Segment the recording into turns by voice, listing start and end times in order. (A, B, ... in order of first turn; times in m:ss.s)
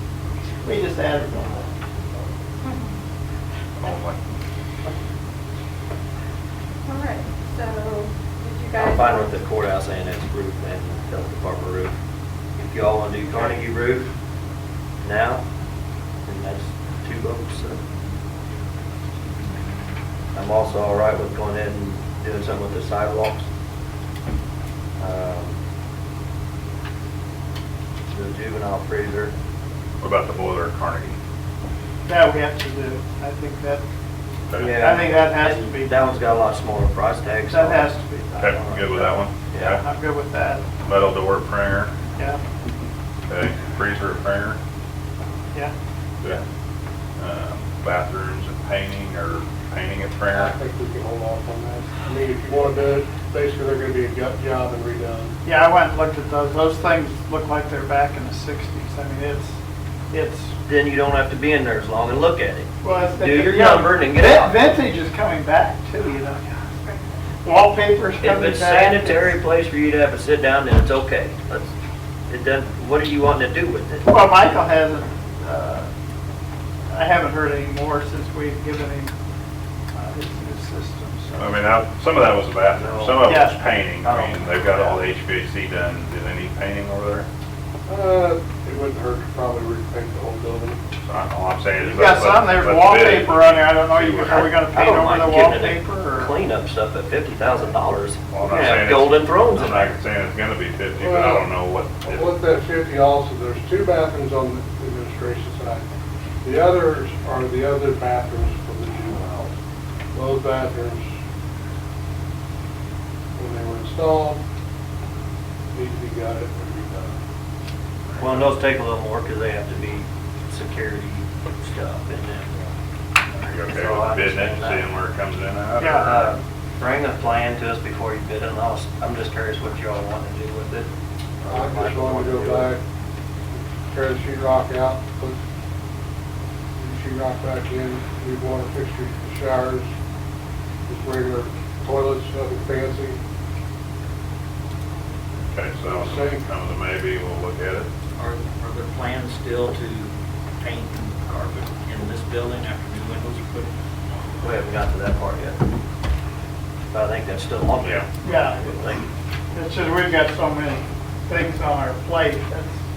0:00.6-0:01.7 A
0:03.8-0:04.2 B
0:06.9-0:09.0 C
0:08.7-0:12.0 D
0:08.9-0:09.2 A
0:12.6-0:14.1 D
0:15.0-0:15.4 D
0:16.3-0:17.8 D
0:20.3-0:23.4 D
0:25.0-0:25.6 D
0:28.1-0:29.3 D
0:30.0-0:31.2 B
0:32.1-0:33.8 A
0:34.5-0:34.8 B
0:34.5-0:37.9 D
0:34.8-0:35.5 C
0:34.8-0:36.1 A
0:37.5-0:38.5 A
0:38.4-0:39.8 B
0:38.4-0:39.8 D
0:39.8-0:40.6 A
0:40.8-0:41.9 B
0:42.2-0:42.4 A
0:43.3-0:44.6 B
0:47.2-0:50.6 B
0:50.3-0:55.3 E
0:55.4-0:59.5 A
1:00.1-1:00.6 A
1:00.6-1:04.8 D
1:02.8-1:09.4 A
1:08.2-1:11.7 D
1:12.3-1:14.1 D
1:14.0-1:15.9 A
1:16.9-1:19.1 A
1:19.9-1:21.4 A
1:21.4-1:27.3 B
1:22.8-1:23.3 D
1:24.0-1:25.0 D
1:27.9-1:30.8 E
1:31.0-1:34.4 B
1:31.8-1:36.3 A
1:32.1-1:33.3 C
1:34.3-1:40.0 D
1:38.3-1:42.4 B
1:41.0-1:41.5 E
1:42.1-1:45.8 E
1:46.4-1:49.5 E
1:50.1-1:51.1 E
1:53.4-1:54.4 E
1:55.7-1:57.2 E
1:58.2-2:02.6 D
2:03.4-2:06.3 B
2:03.4-2:04.9 D
2:06.0-2:10.9 D
2:11.4-2:12.7 D
2:11.4-2:12.8 E
2:13.5-2:15.4 E
2:16.8-2:19.9 E
2:20.9-2:23.2 E
2:25.5-2:27.9 B
2:25.9-2:26.4 E
2:28.2-2:29.5 F
2:30.6-2:33.7 F
2:34.4-2:35.6 D
2:36.9-2:39.0 D
2:37.8-2:38.1 B
2:38.2-2:39.0 A
2:39.5-2:42.8 A